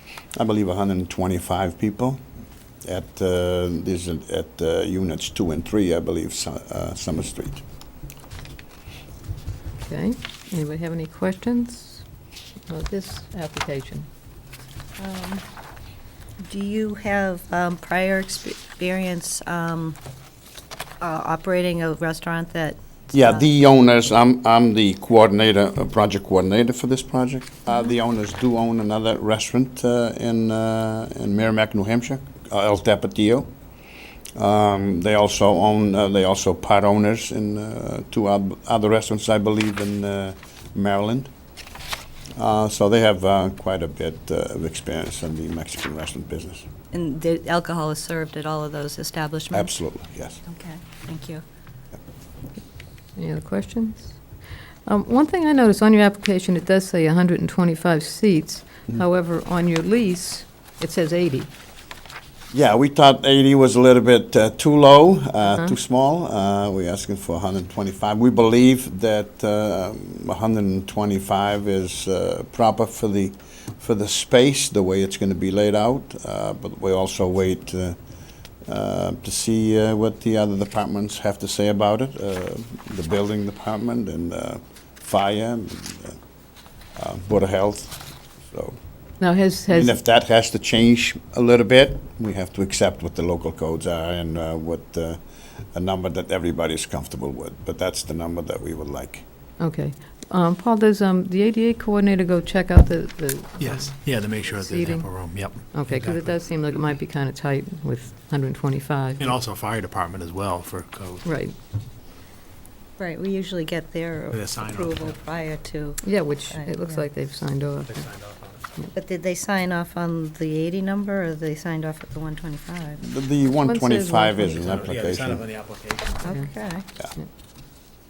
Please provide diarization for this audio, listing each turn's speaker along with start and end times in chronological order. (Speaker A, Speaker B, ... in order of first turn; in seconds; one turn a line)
Speaker A: 0.3-2.2
Speaker A: 2.8-7.6
Speaker B: 9.8-12.0
Speaker B: 12.7-14.1
Speaker C: 15.0-15.4
Speaker C: 16.4-20.0
Speaker C: 21.0-23.4
Speaker A: 23.1-33.5
Speaker A: 34.3-41.3
Speaker A: 42.4-46.6
Speaker C: 46.9-49.7
Speaker A: 49.5-50.4
Speaker C: 50.5-51.4
Speaker B: 53.2-54.2
Speaker B: 54.9-61.5
Speaker A: 62.5-78.0
Speaker A: 78.7-86.2
Speaker A: 87.0-88.8
Speaker B: 89.2-90.0
Speaker A: 89.7-95.2
Speaker A: 95.7-99.2
Speaker B: 99.6-105.1
Speaker D: 103.6-106.3
Speaker B: 105.7-109.3
Speaker D: 109.2-111.3
Speaker B: 111.2-111.5
Speaker C: 113.0-117.0
Speaker D: 114.3-115.2
Speaker B: 116.0-118.0
Speaker D: 117.9-118.7
Speaker C: 118.9-123.0
Speaker A: 123.0-125.4
Speaker B: 123.6-124.8
Speaker D: 124.6-126.3
Speaker C: 126.2-126.8